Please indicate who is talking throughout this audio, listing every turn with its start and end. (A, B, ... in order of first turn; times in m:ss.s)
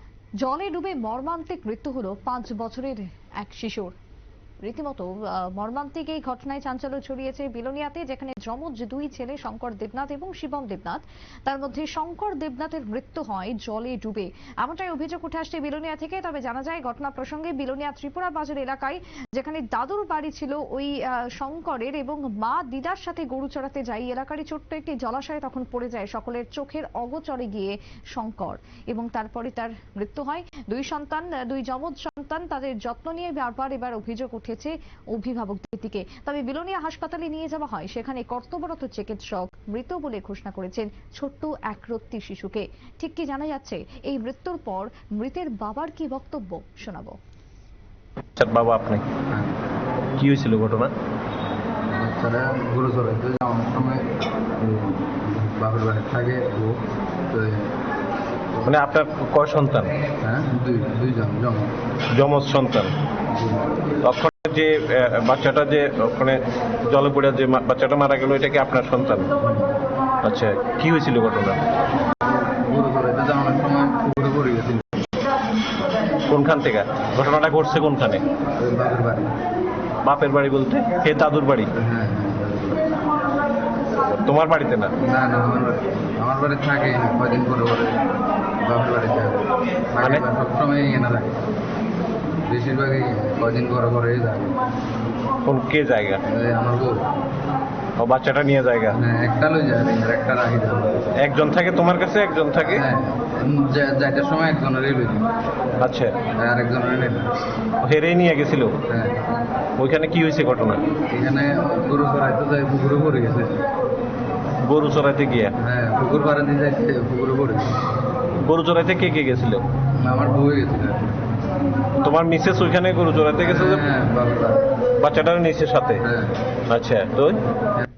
0:00.4-0:03.9 A
0:04.6-0:47.2 A
0:48.4-0:49.0 B
0:49.3-0:49.6 C
0:50.2-0:50.9 B
0:51.9-0:57.7 C
0:58.6-0:59.9 B
1:00.2-1:01.7 C
1:02.1-1:02.9 B
1:03.3-1:03.7 C
1:04.0-1:09.3 B
1:09.4-1:09.7 C
1:10.2-1:11.6 B
1:12.5-1:15.1 C
1:16.2-1:18.2 B
1:18.6-1:19.3 C
1:20.0-1:21.7 B
1:21.8-1:23.0 C
1:24.1-1:24.9 B
1:25.0-1:28.0 C
1:28.6-1:31.4 C
1:32.5-1:34.6 C
1:35.4-1:36.2 B
1:36.3-1:37.0 C
1:38.0-1:39.0 B
1:39.0-1:41.1 C
1:41.2-1:42.8 B
1:42.6-1:45.3 C
1:45.8-1:46.2 B
1:46.3-1:47.3 C
1:47.8-1:48.8 B
1:48.9-1:49.2 C
1:49.8-1:50.8 B
1:51.1-1:53.7 C
1:54.6-1:55.5 B
1:55.6-1:57.8 C
1:58.4-1:59.6 B
2:00.0-2:01.1 C
2:02.0-2:03.8 B
2:03.4-2:04.7 C
2:04.9-2:06.0 B
2:06.0-2:06.4 C
2:06.7-2:07.4 B